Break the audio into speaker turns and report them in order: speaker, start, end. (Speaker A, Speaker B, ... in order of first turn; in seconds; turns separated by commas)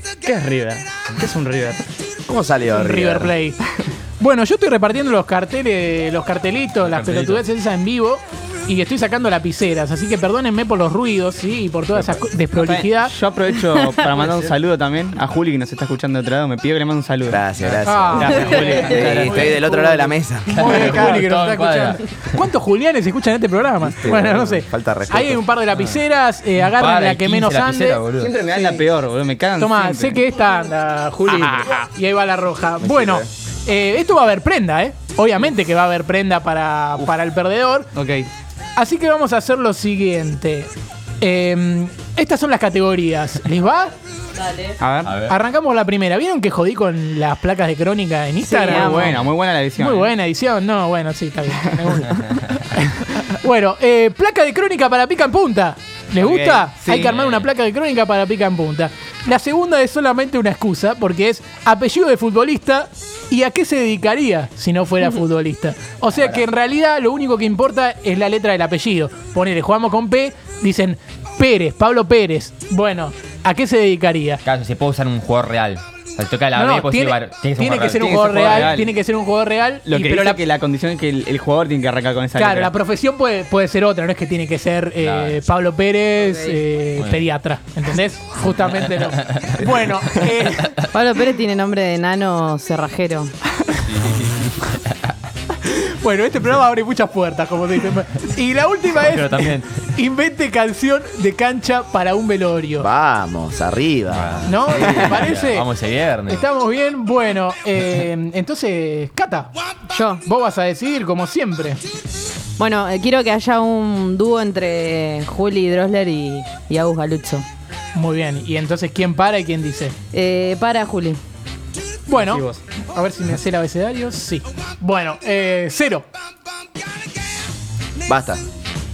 Speaker A: 0.2-1.8, Speaker B: 2.3-3.3, Speaker C: 2.7-3.6, Speaker C: 4.2-13.1, Speaker D: 6.8-7.4, Speaker A: 12.2-17.4, Speaker B: 17.3-20.7, Speaker D: 17.6-17.9, Speaker C: 17.8-28.1, Speaker A: 18.1-19.7, Speaker D: 18.6-19.0, Speaker D: 20.5-22.4, Speaker B: 23.9-25.4, Speaker D: 26.6-28.4, Speaker A: 28.1-30.3, Speaker C: 29.6-37.9, Speaker A: 31.3-31.8, Speaker B: 32.8-33.3, Speaker A: 38.0-38.3, Speaker C: 38.8-44.0, Speaker A: 44.8-45.2, Speaker D: 45.0-45.4, Speaker C: 45.3-49.2, Speaker A: 48.5-50.1, Speaker E: 48.5-49.2, Speaker C: 49.8-74.4, Speaker A: 56.2-57.1, Speaker D: 57.0-57.5, Speaker D: 66.1-66.4, Speaker D: 74.5-78.8, Speaker C: 76.5-80.4, Speaker A: 77.9-79.0, Speaker A: 79.8-82.7, Speaker C: 82.4-90.8, Speaker D: 85.0-85.5, Speaker E: 86.2-86.6, Speaker D: 87.0-87.3, Speaker D: 88.6-89.8, Speaker D: 90.4-90.9, Speaker E: 90.9-93.3, Speaker D: 93.8-94.9, Speaker C: 95.6-102.9, Speaker D: 99.0-99.7, Speaker B: 102.8-104.5, Speaker D: 104.1-106.5, Speaker C: 104.5-105.7, Speaker C: 106.3-109.5, Speaker E: 109.9-110.2, Speaker C: 110.2-111.8, Speaker E: 112.6-117.5, Speaker C: 118.0-119.9, Speaker E: 120.1-121.2, Speaker C: 122.1-126.0, Speaker A: 122.2-122.6, Speaker B: 128.1-128.4